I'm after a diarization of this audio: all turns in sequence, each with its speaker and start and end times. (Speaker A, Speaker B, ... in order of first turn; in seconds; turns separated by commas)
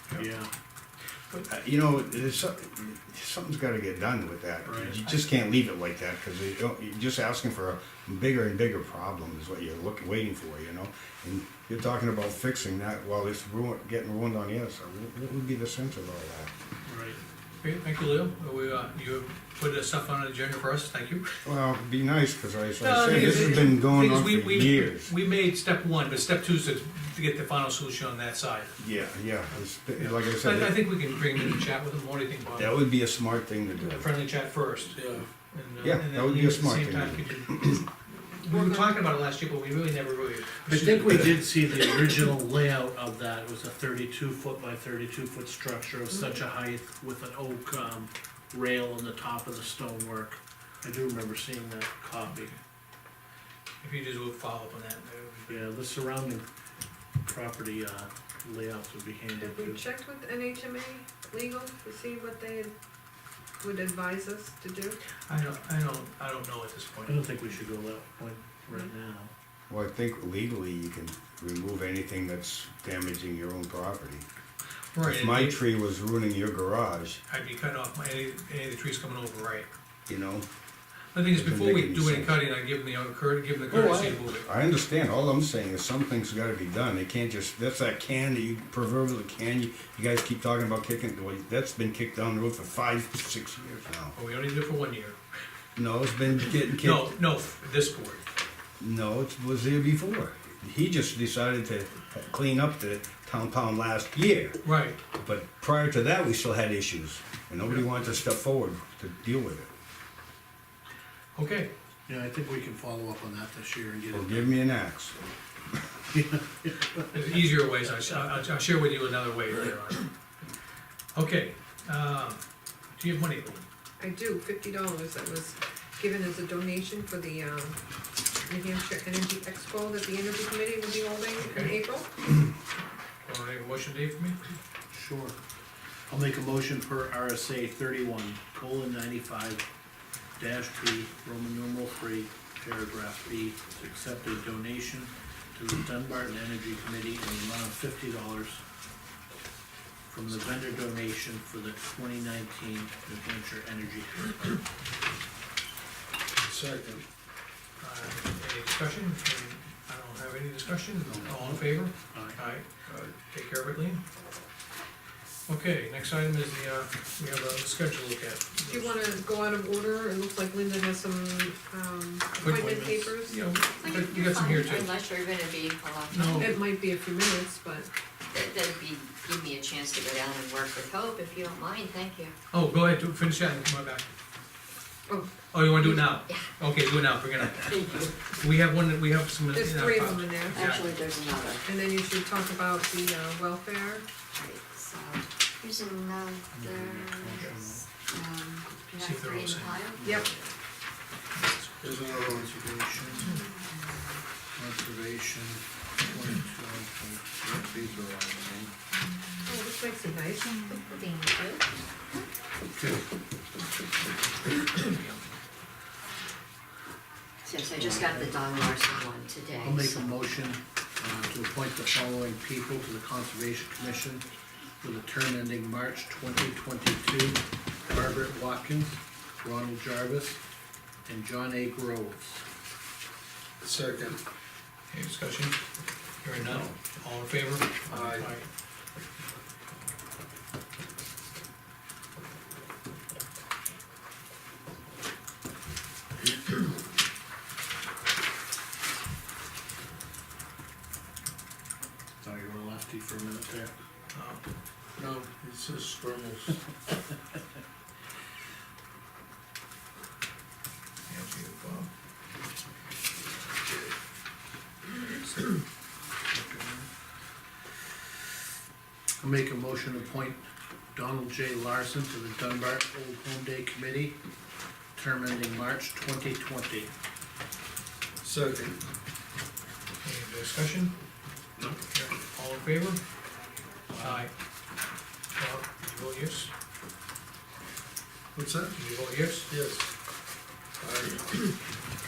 Speaker A: 0.2-0.5, Speaker B: 1.5-16.5, Speaker A: 4.6-5.0, Speaker A: 16.9-17.2, Speaker C: 17.6-21.4, Speaker B: 21.4-25.1, Speaker C: 22.8-28.7, Speaker B: 28.8-30.8, Speaker C: 29.9-32.8, Speaker B: 32.5-34.1, Speaker C: 33.8-41.3, Speaker A: 34.9-35.2, Speaker B: 35.8-37.8, Speaker D: 38.5-38.9, Speaker A: 40.7-52.5, Speaker D: 46.1-46.4, Speaker C: 52.3-52.5, Speaker C: 53.8-55.7, Speaker A: 55.5-56.5, Speaker A: 57.2-59.8, Speaker D: 59.4-62.7, Speaker D: 63.6-65.0, Speaker C: 65.3-67.3, Speaker A: 67.0-69.3, Speaker B: 69.7-74.2, Speaker C: 74.9-75.6, Speaker B: 75.0-77.2, Speaker C: 77.3-79.7, Speaker B: 80.1-80.5, Speaker C: 81.1-84.5, Speaker B: 81.3-82.3, Speaker A: 83.7-84.1, Speaker B: 84.0-94.2, Speaker C: 94.1-95.2, Speaker B: 95.8-97.1, Speaker C: 96.7-98.3, Speaker B: 98.8-109.7, Speaker C: 104.6-105.0, Speaker C: 111.3-111.7, Speaker A: 112.1-114.5, Speaker B: 114.1-115.1, Speaker A: 116.1-117.1, Speaker C: 117.1-120.1, Speaker C: 121.1-123.6, Speaker D: 124.0-127.8, Speaker D: 128.4-132.2, Speaker C: 131.4-131.8, Speaker C: 133.2-134.4, Speaker A: 134.9-135.4, Speaker A: 136.1-139.7, Speaker A: 140.4-148.6, Speaker A: 150.1-154.6, Speaker E: 156.4-157.0, Speaker C: 157.8-162.7, Speaker A: 161.1-162.4, Speaker E: 162.8-163.1, Speaker C: 163.2-164.0, Speaker C: 165.5-168.9, Speaker D: 168.7-173.5, Speaker C: 172.4-174.9, Speaker A: 172.4-173.1, Speaker F: 173.8-176.6, Speaker C: 176.1-176.6, Speaker D: 176.3-177.9, Speaker F: 178.3-182.3, Speaker C: 182.5-184.1, Speaker D: 185.1-186.2, Speaker C: 185.5-190.8, Speaker F: 187.6-188.2, Speaker D: 189.5-190.8, Speaker F: 190.5-191.6, Speaker D: 191.7-194.1, Speaker F: 194.3-200.5, Speaker A: 196.5-197.8, Speaker C: 197.4-197.8, Speaker C: 198.9-200.2, Speaker C: 201.3-201.9, Speaker E: 201.8-202.7, Speaker A: 202.1-203.3, Speaker F: 203.3-204.2, Speaker A: 204.6-208.7, Speaker D: 209.4-211.6, Speaker A: 212.7-213.0, Speaker C: 214.8-215.2, Speaker F: 217.4-220.6, Speaker A: 217.8-218.4, Speaker A: 219.6-224.2, Speaker A: 224.8-230.4, Speaker A: 231.1-232.4, Speaker E: 233.6-234.2, Speaker C: 234.9-235.6, Speaker C: 236.2-238.4, Speaker E: 237.8-238.3, Speaker A: 252.2-253.7, Speaker C: 254.1-254.4, Speaker E: 255.0-256.6, Speaker C: 261.1-261.9, Speaker A: 266.3-266.8, Speaker A: 269.2-270.4, Speaker A: 270.9-274.2, Speaker A: 274.9-276.9, Speaker E: 278.2-278.8, Speaker C: 280.0-280.9, Speaker C: 281.9-283.0, Speaker A: 283.9-284.2, Speaker C: 284.0-284.3, Speaker C: 285.4-286.5, Speaker E: 288.3-288.8, Speaker C: 288.7-289.5, Speaker E: 289.5-289.9, Speaker E: 290.8-291.5